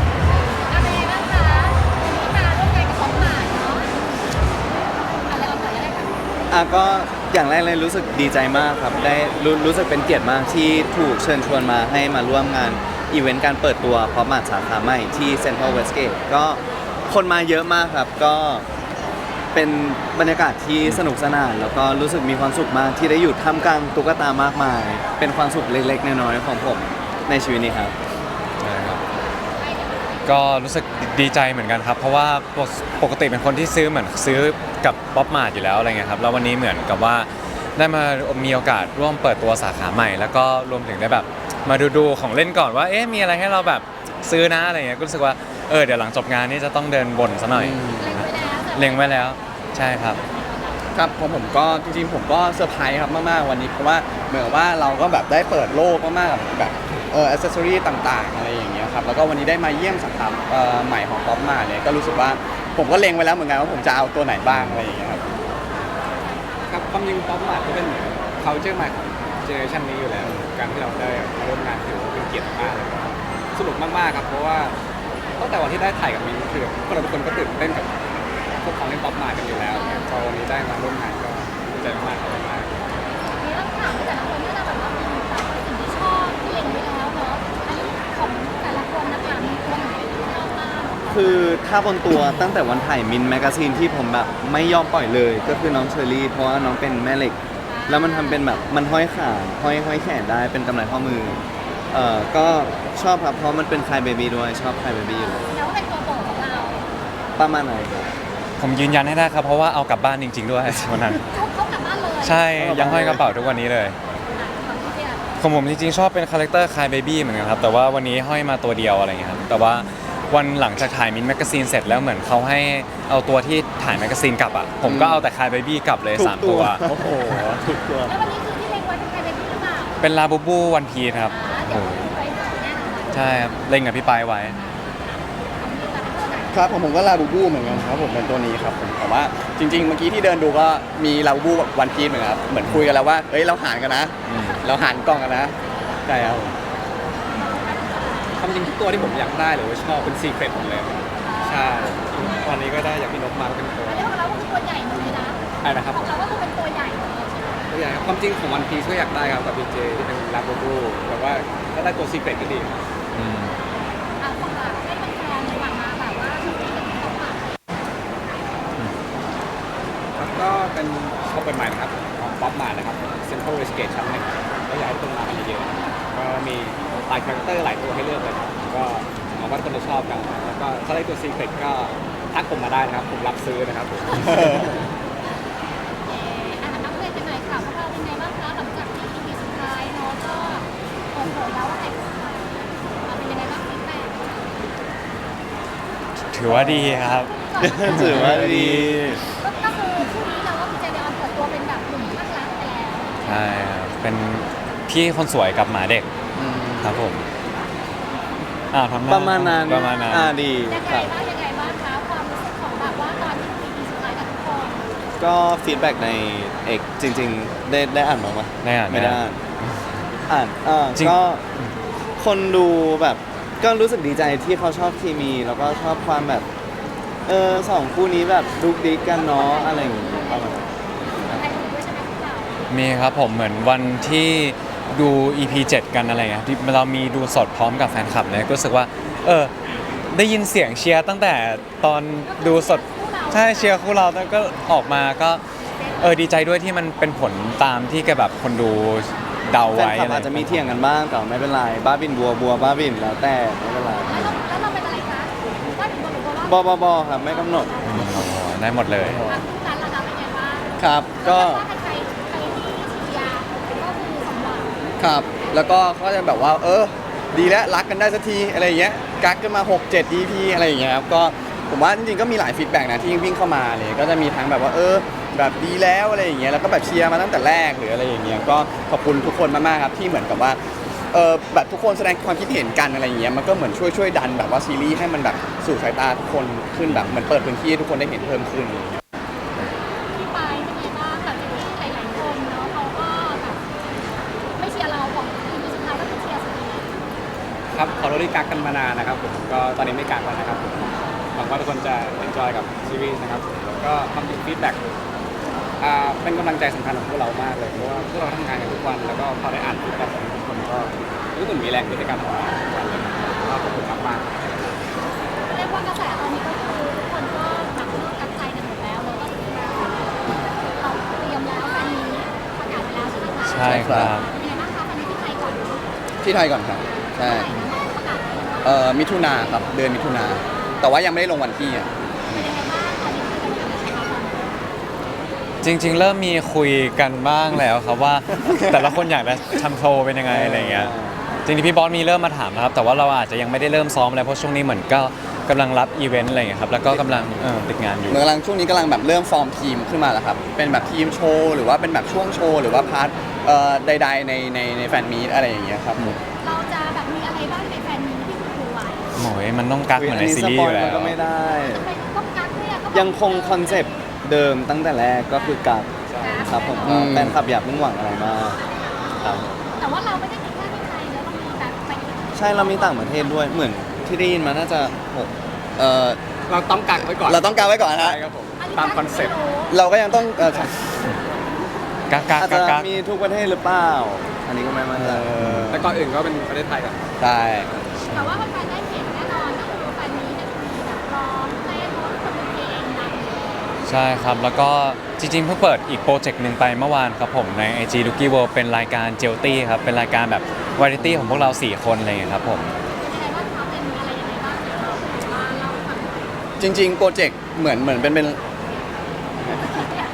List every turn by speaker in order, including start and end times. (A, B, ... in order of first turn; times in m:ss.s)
0:00.6-0:03.9 A
0:05.3-0:06.2 A
0:06.5-0:18.6 B
0:19.5-0:28.0 B
0:28.6-0:29.0 C
0:29.6-0:30.5 A
0:30.2-0:50.2 C
0:47.6-0:48.2 D
0:48.0-0:49.4 A
0:50.0-0:50.6 A
0:50.9-1:05.2 D
1:06.7-1:14.7 E
1:15.4-1:17.9 E
1:18.5-1:22.7 E
1:19.7-1:20.1 A
1:23.4-1:31.0 A
1:31.1-1:41.4 B
1:37.7-1:38.6 A
1:41.9-1:45.5 B
1:45.1-1:46.8 A
1:47.4-1:48.1 B
1:48.6-1:51.2 C
1:51.3-1:52.5 A
1:52.2-1:54.0 C
1:52.6-1:53.3 B
1:54.3-1:55.3 A
1:55.4-2:06.8 C
2:04.9-2:05.2 D
2:06.2-2:08.2 B
2:08.1-2:10.0 A
2:10.0-2:12.1 C
2:11.3-2:13.2 A
2:13.1-2:14.6 C
2:15.6-2:16.6 A
2:16.5-2:25.5 D
2:24.3-2:24.6 C
2:26.1-2:26.5 D
2:27.3-2:28.3 A
2:28.4-2:34.1 E
2:31.2-2:31.8 A
2:33.9-2:37.6 A
2:35.6-2:36.1 E
2:37.7-2:42.8 E
2:43.2-2:43.5 C
2:44.2-2:47.4 A
2:50.2-3:04.7 E
3:04.2-3:04.7 D
3:06.1-3:14.2 A
3:16.3-3:19.2 C
3:17.0-3:18.3 A
3:17.6-3:19.2 B
3:19.4-3:23.1 A
3:23.2-3:26.1 C
3:26.4-3:26.9 D
3:26.8-3:27.2 C
3:28.7-3:30.3 C
3:29.1-3:31.1 B
3:30.7-3:34.8 A
3:35.2-3:39.4 B
3:38.6-3:40.1 C
3:40.3-3:41.4 B
3:42.2-3:46.5 B
3:47.3-3:50.6 B
3:48.4-3:52.6 A
3:52.7-3:59.5 C
4:00.1-4:05.4 C
4:02.3-4:03.8 A
4:06.0-4:10.8 C
4:09.7-4:14.3 B
4:14.1-4:18.0 A
4:16.4-4:17.7 B
4:17.8-4:19.3 C
4:19.2-4:24.7 A
4:20.8-4:21.6 D
4:25.0-4:40.6 D
4:41.1-4:49.0 D
4:46.9-4:47.2 C
4:50.1-4:53.6 A
4:54.6-4:56.9 A
4:57.7-5:04.8 E
5:05.8-5:14.8 E
5:15.5-5:20.1 A
5:20.8-5:25.8 A
5:23.4-5:24.3 C
5:23.7-5:24.2 D
5:26.2-5:27.5 D
5:27.2-5:28.8 A
5:28.6-5:31.9 D
5:32.3-5:34.5 A
5:35.6-5:40.9 C
5:38.4-5:39.0 D
5:40.3-5:41.2 B
5:41.5-5:48.2 C
5:48.1-5:56.2 D
5:56.4-5:59.1 A
5:59.2-6:01.2 C
6:00.0-6:01.9 B
6:01.7-6:04.0 A
6:02.9-6:08.6 B
6:06.1-6:06.6 E
6:06.2-6:07.1 A
6:06.8-6:07.4 D
6:09.2-6:09.5 B
6:09.8-6:13.5 A
6:12.4-6:16.2 B
6:16.5-6:19.3 E
6:17.0-6:18.2 D
6:18.6-6:19.8 A
6:19.7-6:20.8 D
6:22.1-6:22.9 C
6:22.4-6:25.3 B
6:25.0-6:25.9 D
6:25.4-6:25.7 C
6:25.7-6:27.1 E
6:27.2-6:27.7 D
6:28.1-6:28.4 C
6:28.1-6:33.8 A
6:33.9-6:42.7 C
6:41.0-6:41.6 D
6:43.0-6:46.2 A
6:46.6-6:48.4 D
6:49.6-6:50.0 A